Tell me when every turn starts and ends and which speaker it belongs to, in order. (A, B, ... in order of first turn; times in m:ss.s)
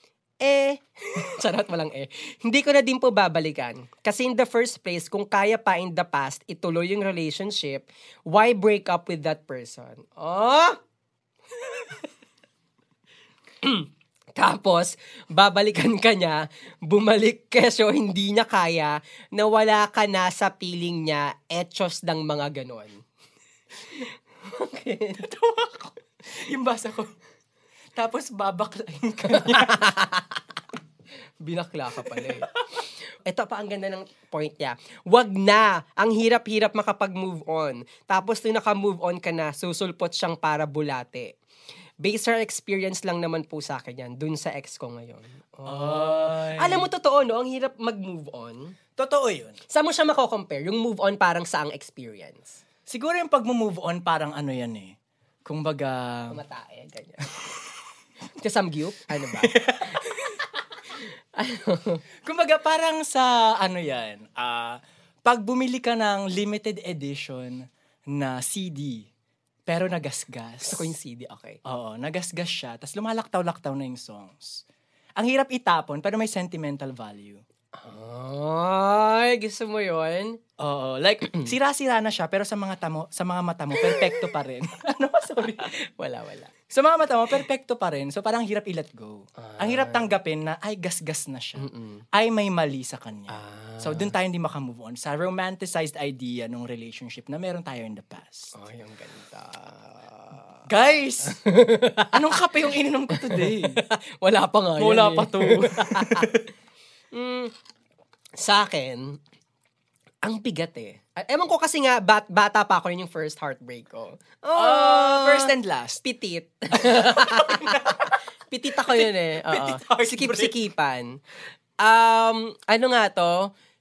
0:00.4-0:10.8 A
0:13.6-0:23.0 A
0:24.0-0:25.2 A
0:25.2-0:27.1 B
0:28.0-0:29.9 B
0:29.3-0:30.4 A
0:31.4-0:32.5 A
0:32.0-0:32.8 B
0:33.2-0:41.4 A
0:42.0-0:48.8 A
0:45.7-0:46.9 B
0:49.0-0:49.6 B
0:49.7-0:52.6 A
0:52.9-0:56.4 B
0:56.3-0:57.3 A
0:58.4-1:00.3 A
0:59.3-1:00.0 B
1:01.0-1:02.0 A
1:02.2-1:09.1 B
1:09.7-1:10.9 B
1:10.6-1:11.6 A
1:11.6-1:14.6 B
1:15.2-1:17.4 B
1:17.8-1:20.4 A
1:20.6-1:25.7 B
1:23.8-1:24.3 A
1:25.6-1:26.5 A
1:26.7-1:38.5 B
1:29.4-1:30.1 A
1:31.6-1:32.0 A
1:33.3-1:34.1 A
1:38.6-1:40.7 A
1:40.7-1:41.4 B
1:41.2-1:46.3 A
1:42.1-1:43.8 B
1:44.8-1:46.4 B
1:47.1-1:47.5 A
1:48.4-1:49.2 A
1:50.2-2:01.2 A
1:54.6-1:56.0 B
1:56.8-1:58.2 B
1:58.7-2:00.6 B
2:01.8-2:03.5 A